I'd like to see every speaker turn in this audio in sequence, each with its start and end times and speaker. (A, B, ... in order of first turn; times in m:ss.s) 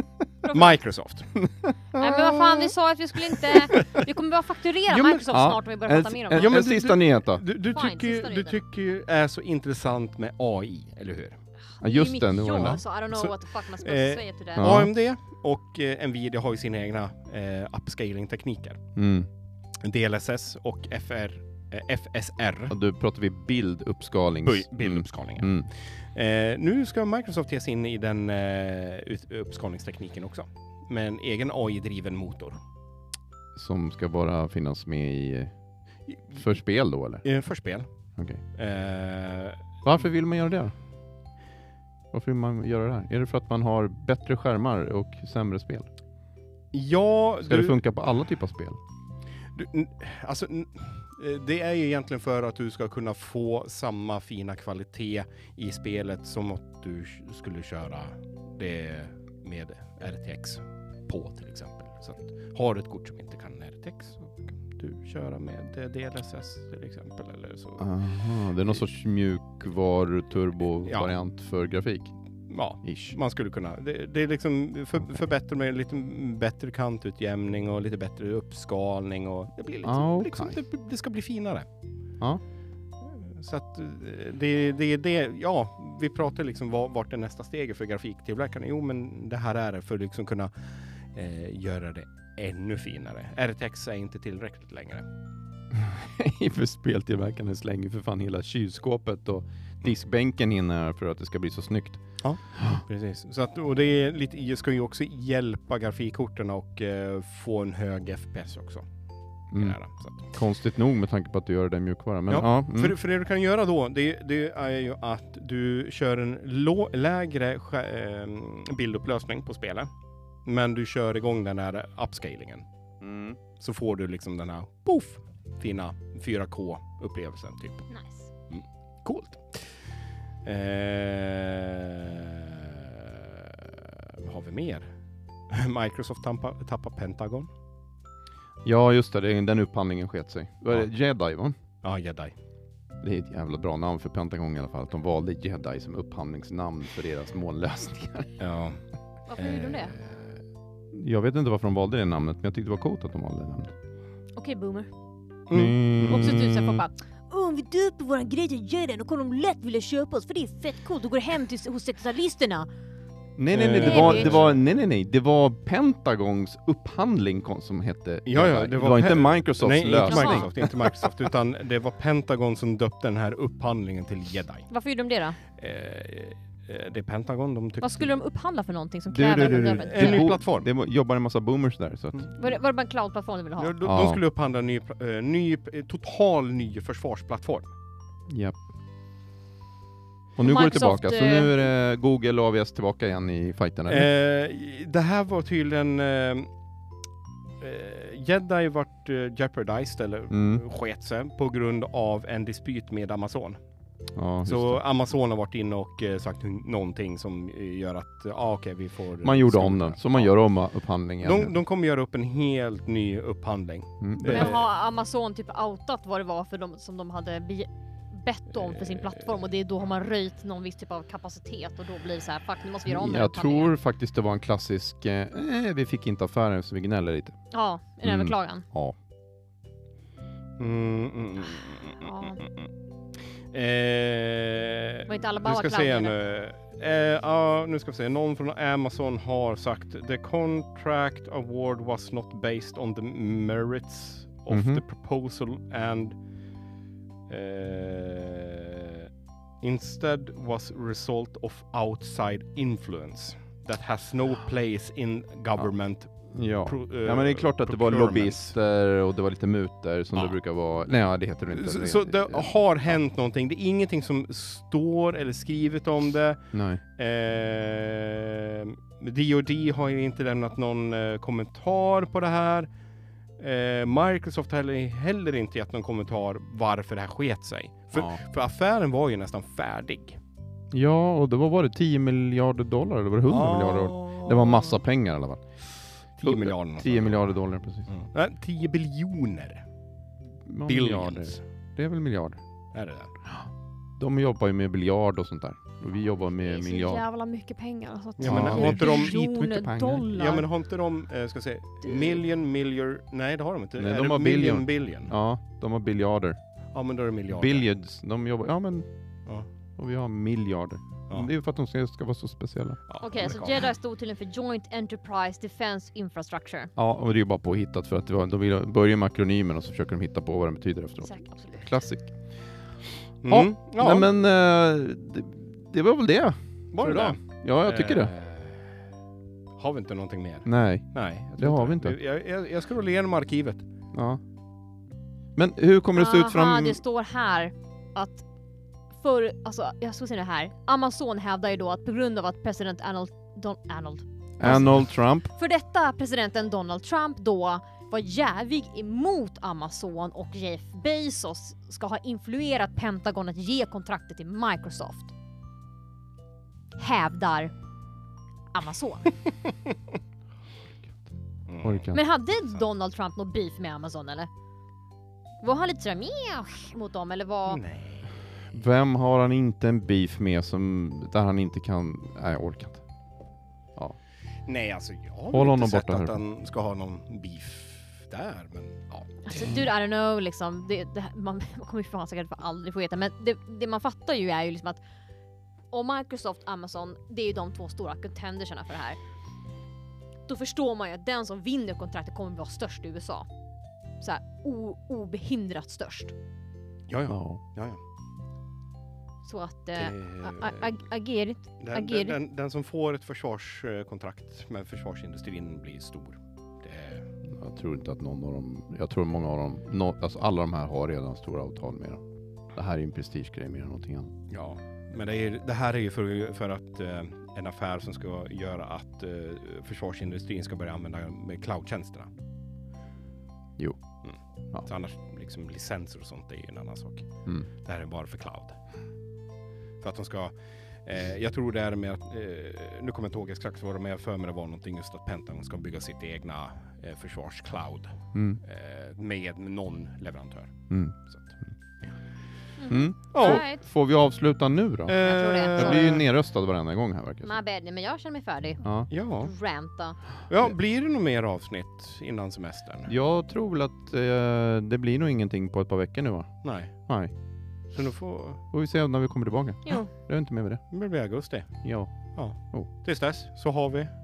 0:00.4-0:00.8 A
0:00.5-0:02.6 B
0:02.0-0:06.6 A
0:03.5-0:04.0 B
0:04.9-0:05.4 B
0:05.3-0:07.4 C
0:06.3-0:11.4 B
0:07.7-0:08.6 A
0:11.8-0:14.7 A
0:11.8-0:12.8 C
0:13.1-0:18.8 B
0:14.6-0:14.9 C
0:19.0-0:19.3 C
0:19.8-0:22.8 B
0:22.7-0:25.7 C
0:24.4-0:32.6 B
0:33.6-0:35.5 C
0:36.3-0:37.3 C
0:37.2-0:37.9 B
0:38.2-0:38.4 C
0:38.6-0:39.7 B
0:39.8-0:40.7 C
0:42.1-0:45.9 C
0:46.7-0:47.8 B
0:47.4-0:48.8 C
0:49.6-1:07.9 B
1:07.8-1:12.1 C
1:10.9-1:11.1 B
1:12.5-1:21.7 B
1:12.8-1:13.2 C
1:19.8-1:20.6 C
1:23.0-1:35.1 B
1:35.7-1:42.0 C
1:42.2-1:48.8 B
1:42.6-1:42.8 C
1:49.5-1:49.8 C
1:49.5-1:50.3 B
1:50.3-1:53.0 C
1:52.3-1:59.9 B
2:00.5-2:02.6 B
2:03.0-2:03.4 C
2:03.6-2:07.9 B
2:07.9-2:08.3 A
2:08.5-2:09.6 B
2:10.4-2:14.9 B
2:15.5-2:17.5 B
2:18.6-2:21.6 C
2:21.8-2:22.4 B
2:23.0-2:28.4 C
2:28.4-2:28.8 B
2:29.3-2:30.0 A
2:29.4-2:30.2 B
2:30.9-2:33.7 C
2:34.4-2:34.9 A
2:35.5-2:36.5 B
2:35.5-2:36.8 C
2:36.1-2:42.7 A
2:43.4-2:51.1 C
2:43.5-2:44.6 B
2:43.8-2:44.4 A
2:48.3-2:54.7 B
2:50.1-2:50.5 A
2:54.7-2:55.4 A
2:55.6-2:58.1 B
2:57.8-3:00.3 A
2:59.1-3:02.3 C
2:59.3-3:00.7 B
3:02.4-3:03.8 A
3:03.6-3:07.7 B
3:03.8-3:04.2 C
3:08.3-3:08.6 C
3:10.4-3:14.1 C
3:10.4-3:11.5 A
3:13.9-3:16.5 B
3:17.6-3:23.6 B
3:20.3-3:20.6 C
3:24.2-3:24.8 C
3:24.4-3:30.3 B
3:29.2-3:31.6 C
3:31.2-3:34.7 B
3:34.0-3:34.6 C
3:34.2-3:43.7 A
3:42.9-3:47.4 C
3:47.5-3:48.6 A
3:48.0-3:49.0 C
3:50.6-3:52.7 B
3:52.0-3:52.4 A
3:53.5-4:06.2 B
3:55.1-3:56.2 A
4:04.5-4:04.8 C
4:07.3-4:09.1 B
4:09.6-4:16.1 B
4:16.3-4:22.5 C
4:16.6-4:18.6 B
4:21.5-4:26.4 B
4:26.5-4:26.8 C
4:27.0-4:32.7 B
4:33.4-4:40.2 B
4:37.9-4:38.2 C
4:40.7-4:45.4 C
4:43.3-4:44.8 B
4:46.2-4:47.3 B
4:46.2-4:47.9 C
4:47.9-4:49.6 B
4:50.4-4:52.4 C
4:50.7-4:51.4 B
4:52.7-4:53.1 B
4:54.0-4:57.0 C
4:56.4-5:00.5 A
4:58.2-4:59.2 B
4:58.2-5:00.3 C
5:00.1-5:05.1 B
5:01.8-5:02.2 A
5:03.8-5:06.4 C
5:06.7-5:07.7 B
5:07.3-5:08.9 C
5:09.8-5:12.8 C
5:12.9-5:13.6 B
5:13.0-5:16.7 A
5:16.8-5:22.1 C
5:21.0-5:21.7 A
5:23.2-5:24.1 B
5:23.3-5:28.1 C
5:26.7-5:28.8 B
5:29.6-5:33.6 B
5:30.5-5:32.0 C
5:33.9-5:34.2 C
5:35.4-5:36.8 C
5:36.0-5:38.2 A
5:39.0-5:55.1 A
5:44.4-5:45.3 C
5:56.8-5:57.5 A
5:58.5-5:59.2 A
6:01.5-6:01.9 B
6:01.6-6:02.0 C
6:01.9-6:04.3 A
6:05.4-6:07.6 A
6:07.5-6:08.1 B
6:08.5-6:12.8 C
6:14.5-6:19.6 B
6:15.3-6:16.2 C
6:19.3-6:24.8 A
6:25.7-6:29.0 A
6:30.3-6:33.3 A
6:34.0-6:36.1 A
6:36.9-6:37.8 B
6:37.1-6:37.4 C
6:39.2-6:42.2 A
6:39.8-6:40.8 B
6:41.6-6:47.1 B
6:47.3-6:52.0 C
6:52.5-6:54.1 C
6:54.3-7:02.1 B
7:04.0-7:07.1 B
7:07.6-7:08.6 B
7:09.8-7:10.3 B
7:10.8-7:21.3 B
7:18.1-7:18.4 C
7:20.7-7:21.0 C
7:22.6-7:23.7 A
7:22.7-7:27.4 C
7:23.1-7:23.4 B
7:24.9-7:26.1 B
7:25.0-7:25.9 A
7:27.2-7:30.0 A
7:28.6-7:28.9 C
7:28.9-7:29.3 B
7:30.3-7:32.9 B
7:32.9-7:36.3 C
7:36.4-7:36.7 B
7:36.9-7:37.1 C
7:37.7-7:38.4 B
7:38.5-7:40.6 C
7:39.6-7:39.9 A
7:40.7-7:41.6 B
7:41.6-7:41.9 C
7:42.2-7:43.9 B